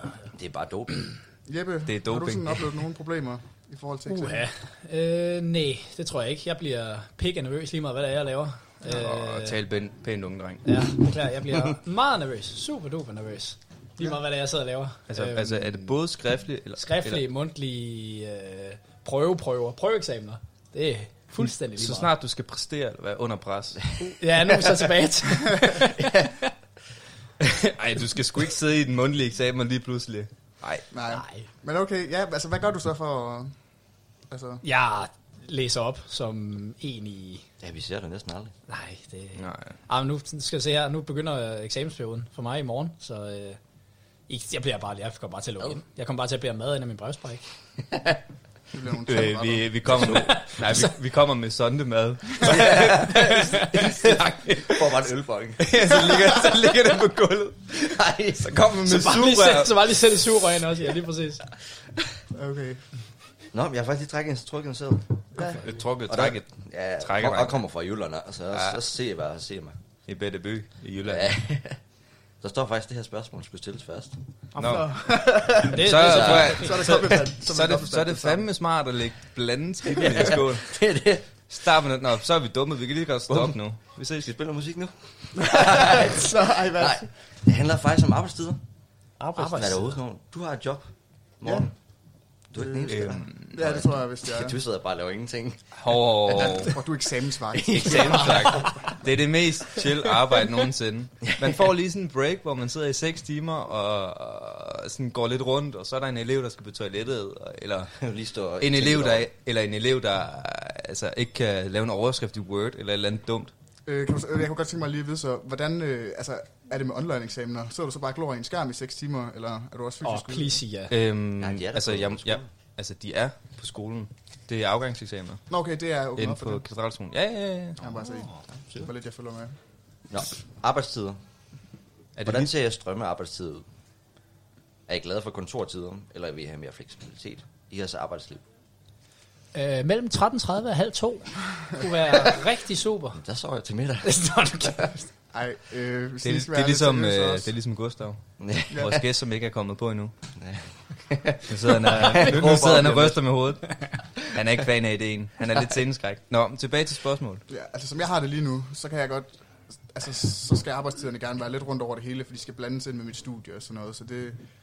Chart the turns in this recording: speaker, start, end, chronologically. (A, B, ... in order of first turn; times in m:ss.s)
0:00.3-0:01.1 A
0:01.5-0:04.4 B
0:01.9-0:02.6 C
0:04.1-0:09.6 D
0:08.8-0:10.6 C
0:10.6-0:15.8 D
0:15.1-0:17.2 C
0:16.8-0:22.1 D
0:21.8-0:23.9 C
0:24.0-0:26.5 D
0:27.4-0:30.8 C
0:30.9-0:33.5 B
0:31.1-0:31.5 D
0:34.3-0:34.6 B
0:34.6-0:37.4 D
0:37.6-0:38.5 A
0:38.7-0:43.6 D
0:39.4-0:39.8 C
0:44.3-0:47.4 D
0:47.9-0:48.2 A
0:48.7-0:49.8 B
0:49.1-0:54.8 C
0:49.9-0:50.4 A
0:50.5-0:50.8 D
0:52.4-0:56.8 A
0:53.4-0:53.8 D
0:55.6-0:57.7 C
0:57.7-0:58.7 A
0:58.4-0:59.9 C
0:58.9-1:01.4 D
1:02.3-1:02.8 B
1:03.5-1:05.2 A
1:05.5-1:07.6 C
1:06.1-1:09.8 A
1:08.5-1:08.8 C
1:10.1-1:11.3 C
1:11.0-1:11.8 A
1:12.4-1:14.2 A
1:14.6-1:14.8 D
1:14.6-1:14.9 C
1:14.6-1:18.5 B
1:15.5-1:16.8 D
1:15.7-1:20.8 C
1:16.0-1:16.6 A
1:19.9-1:21.3 A
1:21.5-1:24.3 C
1:23.3-1:23.6 A
1:24.2-1:28.6 A
1:25.4-1:27.1 B
1:29.2-1:30.0 D
1:29.4-1:31.7 A
1:31.4-1:31.7 B
1:32.5-1:35.6 A
1:32.5-1:34.6 B
1:32.9-1:33.6 C
1:35.8-1:36.8 C
1:36.3-1:38.6 B
1:37.7-1:47.9 C
1:38.1-1:38.9 A
1:48.0-1:49.3 A
1:48.6-1:53.5 C
1:53.9-2:00.6 B
2:00.0-2:00.9 D
2:00.9-2:05.4 C
2:01.4-2:02.5 A
2:05.5-2:06.6 B
2:06.2-2:07.8 C
2:07.8-2:09.6 B
2:10.1-2:11.2 A
2:12.2-2:12.5 C
2:12.2-2:13.7 A
2:14.9-2:18.5 A
2:19.5-2:23.2 D
2:23.1-2:24.2 A
2:24.0-2:25.1 D
2:25.3-2:27.5 B
2:26.2-2:30.1 C
2:28.4-2:29.0 A
2:28.7-2:29.0 B
2:30.4-2:33.2 A
2:31.5-2:37.4 C
2:37.5-2:44.4 B